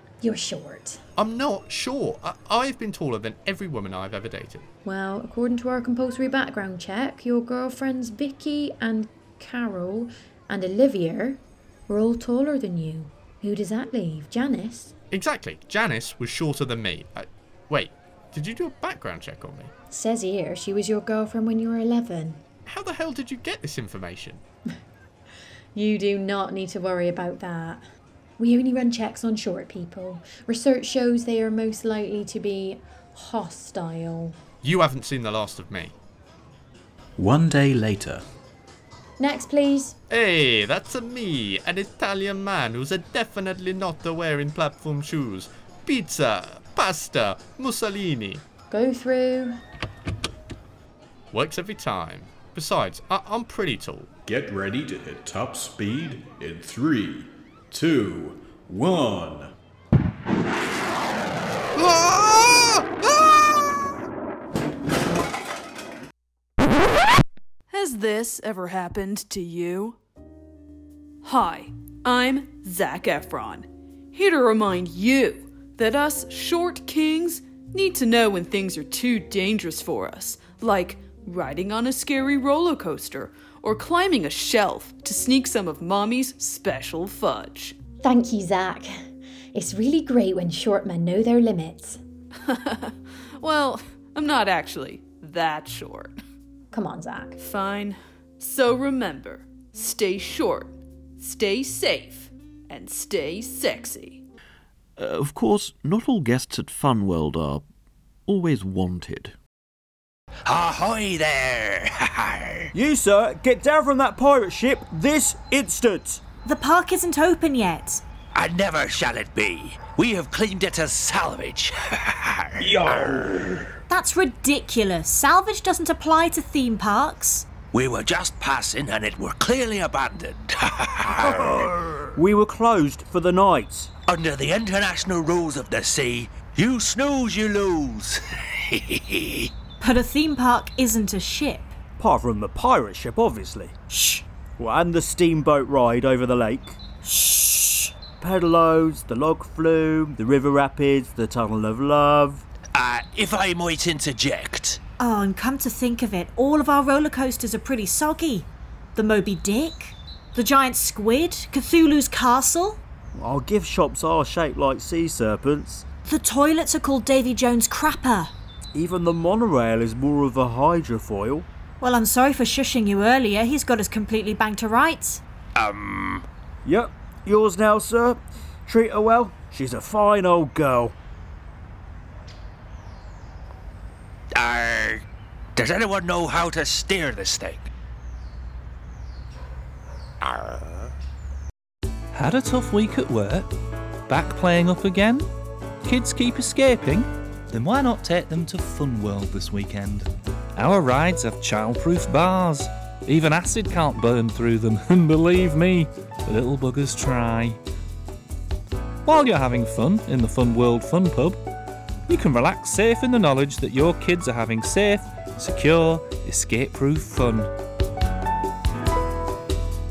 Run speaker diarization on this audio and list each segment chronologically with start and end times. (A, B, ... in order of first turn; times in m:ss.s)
0:00.2-0:01.0 A
0:01.2-0:04.7 B
0:04.8-0:14.9 A
0:15.1-0:19.7 B
0:19.9-0:22.4 A
0:22.6-0:24.4 B
0:25.7-0:27.8 A
0:28.4-0:34.4 A
0:34.6-0:36.0 B
0:37.2-0:38.1 C
0:37.2-0:38.1 D
0:39.2-0:40.0 A
0:40.1-0:48.4 B
0:48.7-0:49.6 A
0:51.3-0:54.1 B
0:54.2-0:59.5 D
1:01.8-1:02.8 B
1:07.7-1:10.0 E
1:11.2-1:27.8 E
1:28.0-1:32.0 A
1:32.4-1:36.2 E
1:36.7-1:37.4 A
1:37.4-1:44.2 E
1:45.0-1:47.6 F
1:48.3-1:49.4 F
1:50.4-1:52.7 C
1:52.7-1:56.2 G
1:56.4-1:58.0 H
1:58.3-2:03.3 C
2:03.9-2:07.5 H
2:07.7-2:11.4 C
2:12.1-2:13.9 G
2:14.1-2:19.5 C
2:19.8-2:21.7 H
2:22.0-2:23.8 G
2:24.6-2:26.8 G
2:27.1-2:27.8 H
2:28.1-2:32.4 G
2:32.7-2:34.8 C
2:35.0-2:42.8 H
2:43.1-2:45.8 G
2:46.0-2:48.3 H
2:48.7-2:51.5 G
2:51.8-2:55.2 H
2:55.6-2:56.2 C
2:56.6-3:00.9 G
3:04.3-3:05.0 C
3:05.5-3:07.7 C
3:12.1-3:13.5 I
3:14.1-3:15.3 I
3:15.8-3:27.6 I
3:29.0-3:31.4 I
3:32.1-3:37.5 I